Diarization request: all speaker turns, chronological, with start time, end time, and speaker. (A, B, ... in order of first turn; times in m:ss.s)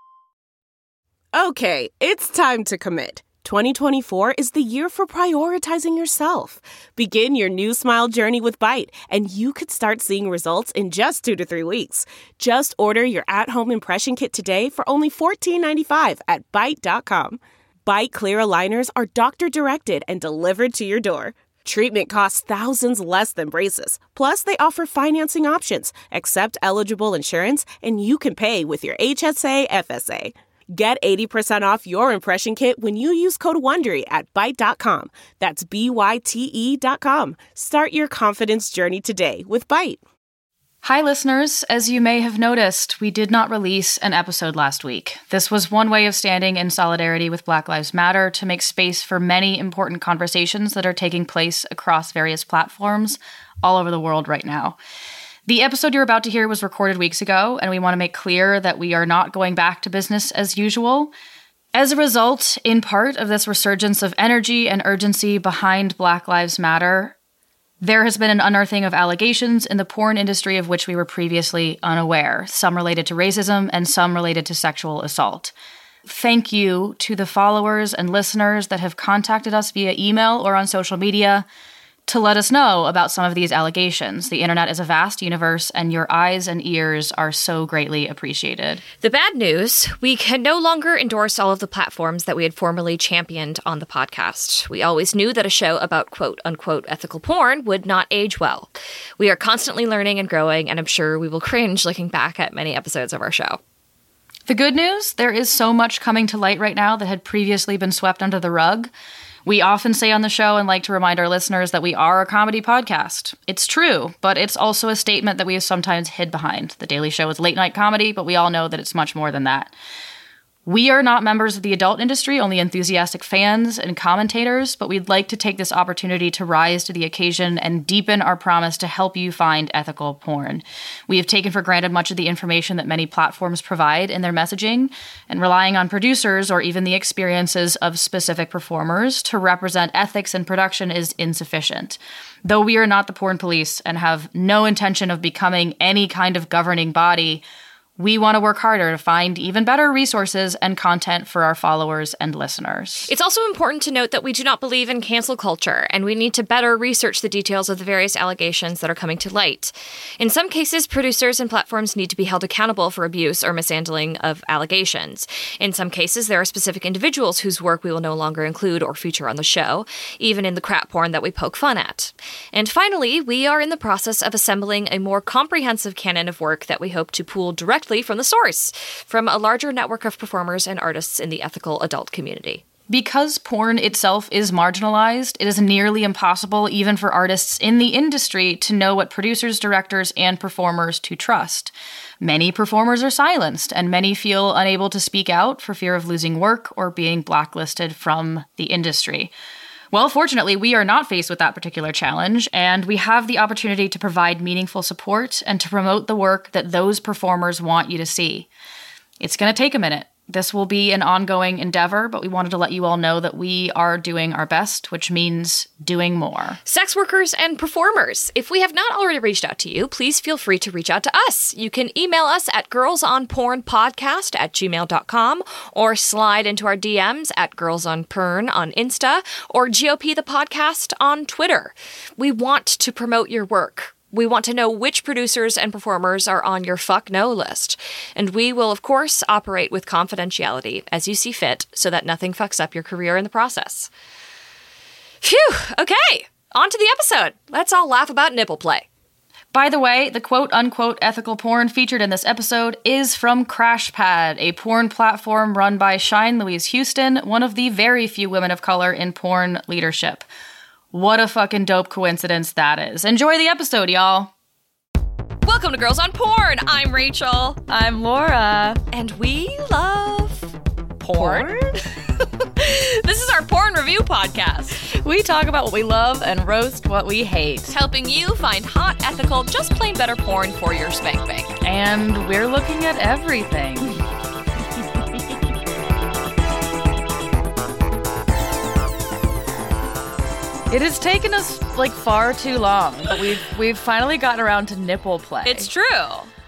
0:01.3-0:40.0 A
0:40.8-0:54.8 B
0:55.5-1:01.1 B
1:01.7-1:07.1 B
1:07.8-1:15.5 B
1:16.0-1:21.4 B
1:22.1-1:28.8 B
1:29.0-1:43.6 C
1:44.5-1:48.9 B
1:49.4-1:59.7 B
2:00.6-2:27.4 B
2:28.0-2:33.1 B
2:33.0-3:02.6 C
3:02.9-3:19.3 B
3:19.9-3:28.5 B
3:29.2-3:36.6 B
3:36.6-4:03.9 C
4:05.2-4:08.8 C
4:09.5-4:20.2 B
4:20.9-4:24.3 B
4:25.4-4:27.6 C
4:27.7-4:28.8 B
4:28.9-4:34.8 C
4:31.1-4:31.7 B
4:34.8-4:37.7 B
4:37.7-4:41.5 C
4:41.6-4:44.0 B
4:50.7-4:55.7 B
4:55.4-4:56.3 C